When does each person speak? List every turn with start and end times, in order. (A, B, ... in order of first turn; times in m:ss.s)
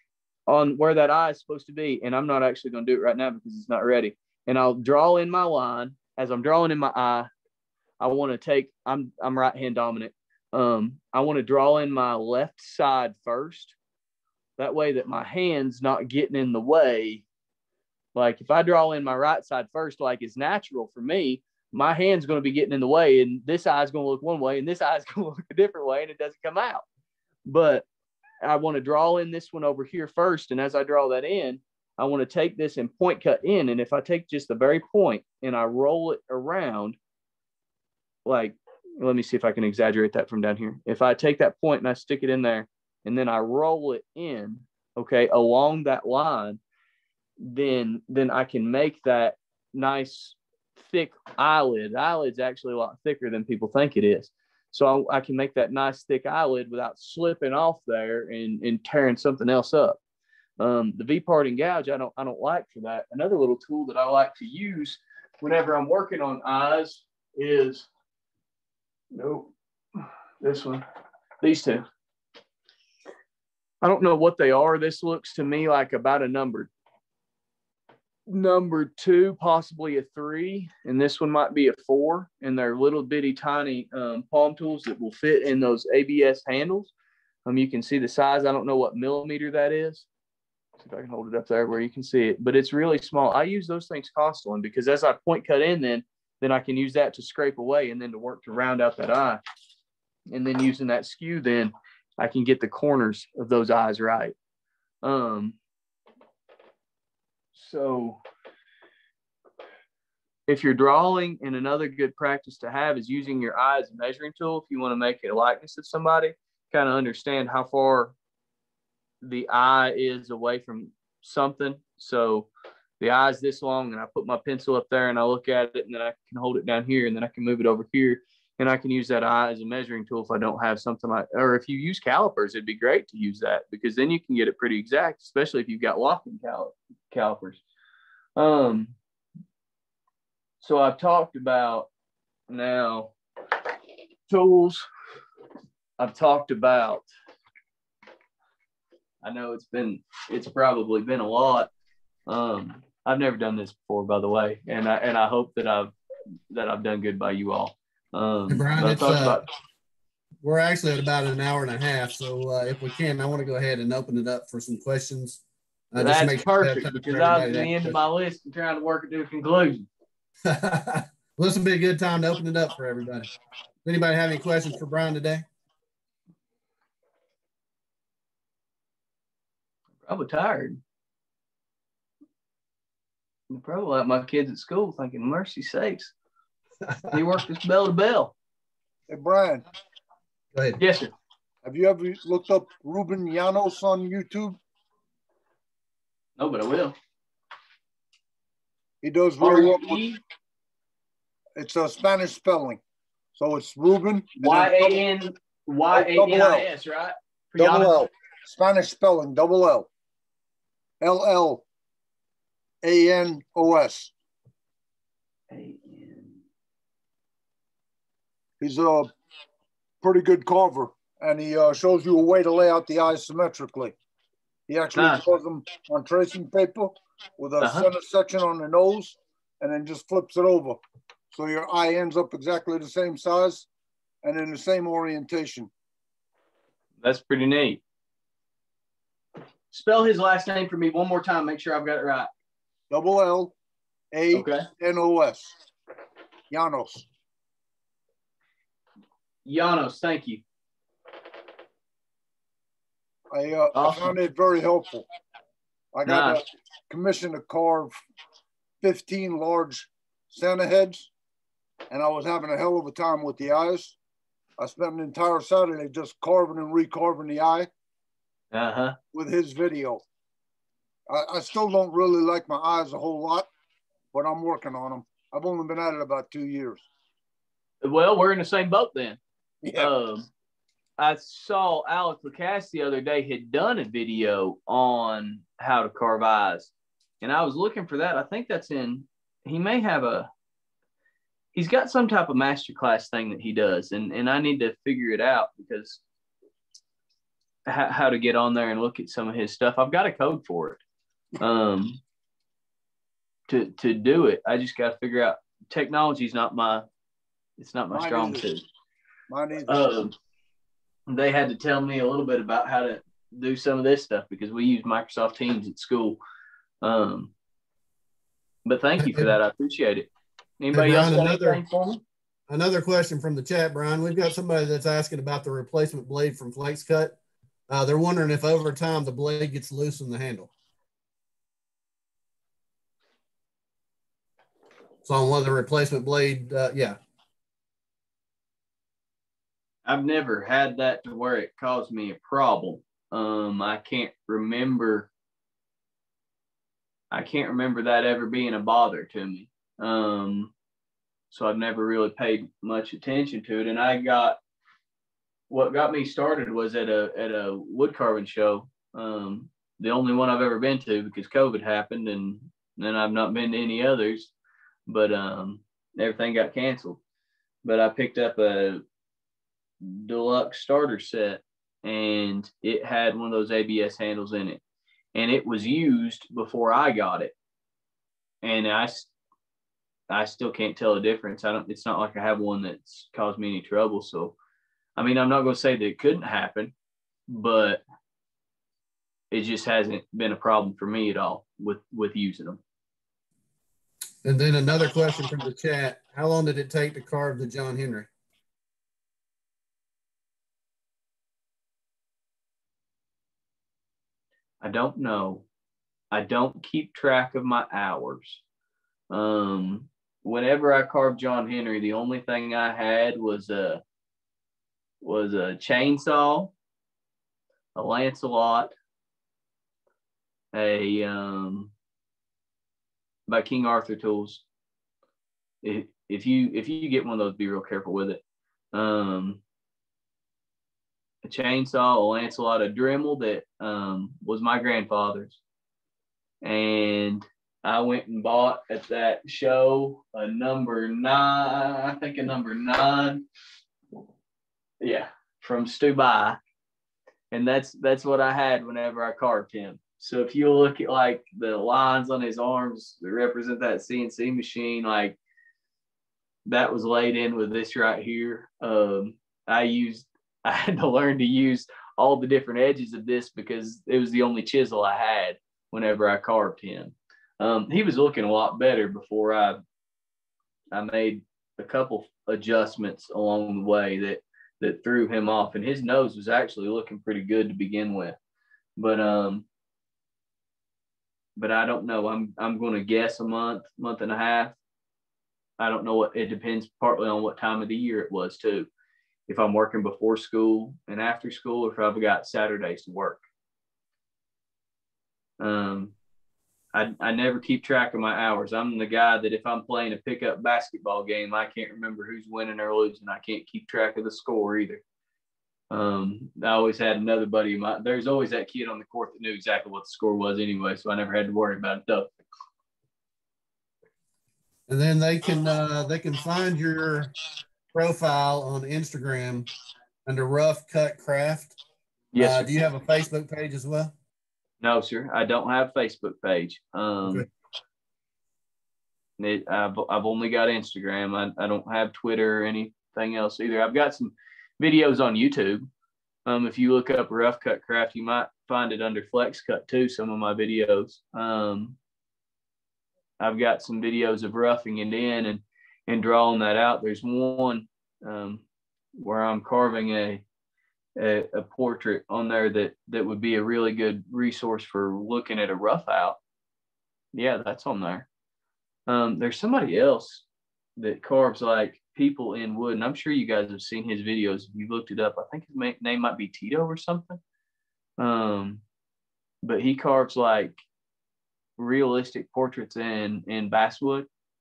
0:00.5-0:07.3 A
0:08.0-0:13.8 A
0:14.6-0:17.2 A
0:18.2-0:26.8 A
0:27.5-0:27.9 A
0:28.4-0:37.0 A
0:38.2-0:46.6 A
0:47.4-1:00.0 A
1:00.6-1:07.9 A
1:09.1-1:10.8 A
1:11.4-1:11.8 A
1:13.8-1:16.7 A
1:18.3-1:26.9 A
1:27.5-1:30.1 A
1:30.8-1:39.4 A
1:40.3-1:44.4 A
1:45.0-1:45.6 A
1:47.6-1:48.2 A
1:50.5-1:58.1 A
1:59.2-2:17.6 A
2:18.4-2:19.0 A
2:20.6-2:21.9 A
2:22.5-2:23.1 A
2:24.3-2:24.9 A
2:26.0-2:27.1 A
2:29.2-2:31.7 A
2:32.3-2:35.9 A
2:36.5-2:39.5 A
2:38.5-2:39.4 B
2:40.4-2:45.4 B
2:45.9-2:48.0 B
2:46.0-2:49.9 A
2:50.5-2:53.3 B
2:53.8-2:55.4 B
3:00.0-3:00.8 A
3:03.5-3:06.1 A
3:07.1-3:08.3 A
3:09.1-3:09.6 C
3:10.5-3:10.8 B
3:10.8-3:11.1 A
3:11.6-3:14.6 C
3:16.4-3:17.0 A
3:19.0-3:20.0 C
3:19.4-3:20.2 A
3:21.6-3:22.8 C
3:23.4-3:24.8 C
3:24.4-3:28.0 A
3:25.9-3:26.7 C
3:27.6-3:29.9 C
3:31.0-3:31.6 C
3:32.8-3:34.1 C
3:35.5-3:36.4 A
3:38.6-3:39.1 C
3:40.0-3:44.0 C
3:44.7-3:50.8 C
3:45.0-3:45.2 A
3:47.6-3:47.9 A
3:51.3-3:53.7 C
3:54.2-3:55.7 C
3:57.0-3:57.8 A
3:59.7-4:02.3 A
4:02.9-4:03.5 C
4:04.1-4:05.5 C
4:04.3-4:04.6 A
4:06.5-4:07.0 C
4:09.5-4:10.4 A
4:13.3-4:15.0 C
4:13.7-4:14.1 A
4:15.9-4:17.9 C
4:16.1-4:16.4 A
4:18.8-4:21.1 C
4:21.9-4:24.0 C
4:24.6-4:27.7 C
4:28.5-4:29.0 A
4:29.1-4:30.0 C
4:31.1-4:33.5 C
4:34.1-4:36.8 C
4:37.8-4:39.2 A
4:39.6-4:39.9 C
4:39.8-4:40.3 A
4:41.0-4:50.3 A
4:51.5-4:56.0 A
4:57.7-5:00.8 A
5:01.4-5:02.0 A
5:03.5-5:06.9 A
5:07.6-5:08.7 A
5:07.9-5:08.4 C
5:09.3-5:09.9 C
5:09.7-5:10.1 A
5:11.1-5:16.2 A
5:16.8-5:17.3 A
5:18.7-5:22.0 A
5:19.0-5:19.3 B
5:20.7-5:21.6 B
5:22.5-5:27.2 B
5:27.7-5:30.5 B
5:35.0-5:37.0 B
5:39.8-5:45.1 A
5:47.1-5:50.5 A
5:51.3-5:54.4 A
5:55.5-6:04.3 A
6:04.9-6:07.0 A
6:07.6-6:08.8 A
6:09.8-6:14.6 A
6:15.1-6:17.3 A
6:18.4-6:19.1 A
6:20.1-6:24.4 A
6:25.0-6:26.7 A
6:27.3-6:27.8 A
6:29.3-6:32.6 A
6:34.2-6:38.1 B
6:44.6-6:45.4 A
6:46.1-6:48.4 A
6:49.1-6:53.8 A
6:55.0-6:56.5 A
6:57.8-6:58.7 A
7:00.5-7:01.7 A
7:03.3-7:04.4 A
7:05.6-7:08.2 A
7:08.7-7:09.4 A
7:11.2-7:15.4 A
7:16.4-7:23.2 A
7:24.8-7:26.4 A
7:27.3-7:35.2 A
7:36.5-7:49.6 A
7:50.7-7:58.2 A
7:58.8-7:59.5 A
8:01.4-8:04.6 A
8:05.6-8:08.7 A
8:09.3-8:13.2 A
8:15.4-8:16.0 A
8:16.7-8:24.8 A
8:25.7-8:32.1 A
8:34.7-8:37.1 B
8:37.7-8:39.5 B
8:40.1-8:41.6 B
8:42.1-8:42.5 A
8:42.2-8:43.9 B
8:44.6-8:47.3 A
8:49.2-8:55.7 A
8:56.3-9:01.8 A
9:03.2-9:08.4 A
9:09.0-9:10.2 A
9:11.0-9:16.2 A
9:17.1-9:18.1 A
9:18.9-9:20.2 A
9:20.8-9:27.2 A
9:28.0-9:28.6 A
9:29.4-9:30.6 A
9:31.6-9:34.1 A